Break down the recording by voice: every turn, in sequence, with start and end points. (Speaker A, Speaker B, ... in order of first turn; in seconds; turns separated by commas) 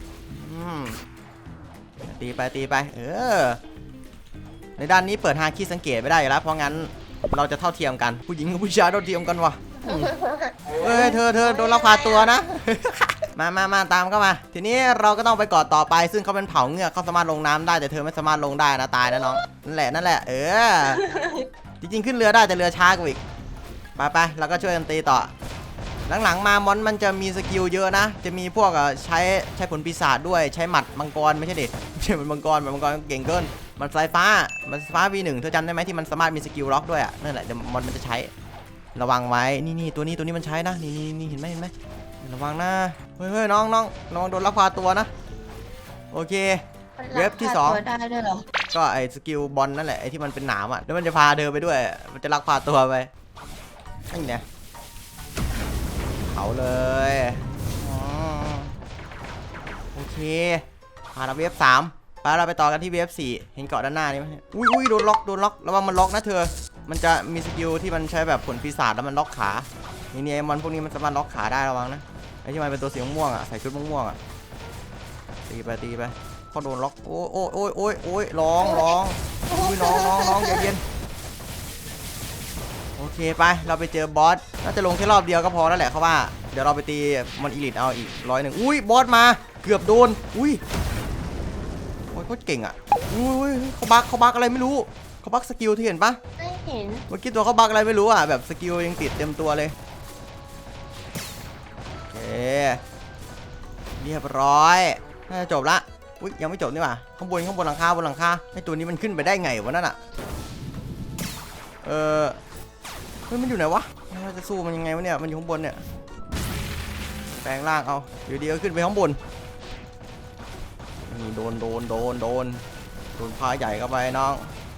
Speaker A: 0.3-1.0, Speaker A: 2.1-3.6, Speaker A: 4.8-10.1, Speaker B: 9.9-12.3, Speaker A: 10.8-21.0, Speaker B: 20.9-21.4, Speaker A: 21.8-23.2, Speaker A: 24.0-25.3, Speaker A: 26.1-38.3, Speaker A: 39.0-45.1, Speaker A: 46.1-47.8, Speaker B: 47.0-48.5, Speaker A: 48.7-53.1, Speaker A: 54.1-54.4, Speaker A: 56.3-58.7, Speaker A: 59.9-74.2, Speaker A: 75.5-80.8, Speaker B: 78.6-78.9, Speaker B: 79.5-80.7, Speaker A: 83.0-90.6, Speaker A: 92.1-96.2, Speaker B: 96.4-97.0, Speaker A: 97.1-99.8, Speaker A: 102.1-102.8, Speaker A: 104.0-110.0, Speaker A: 111.8-112.4, Speaker A: 113.3-115.8, Speaker A: 117.3-119.2, Speaker A: 121.0-122.6, Speaker A: 123.2-124.5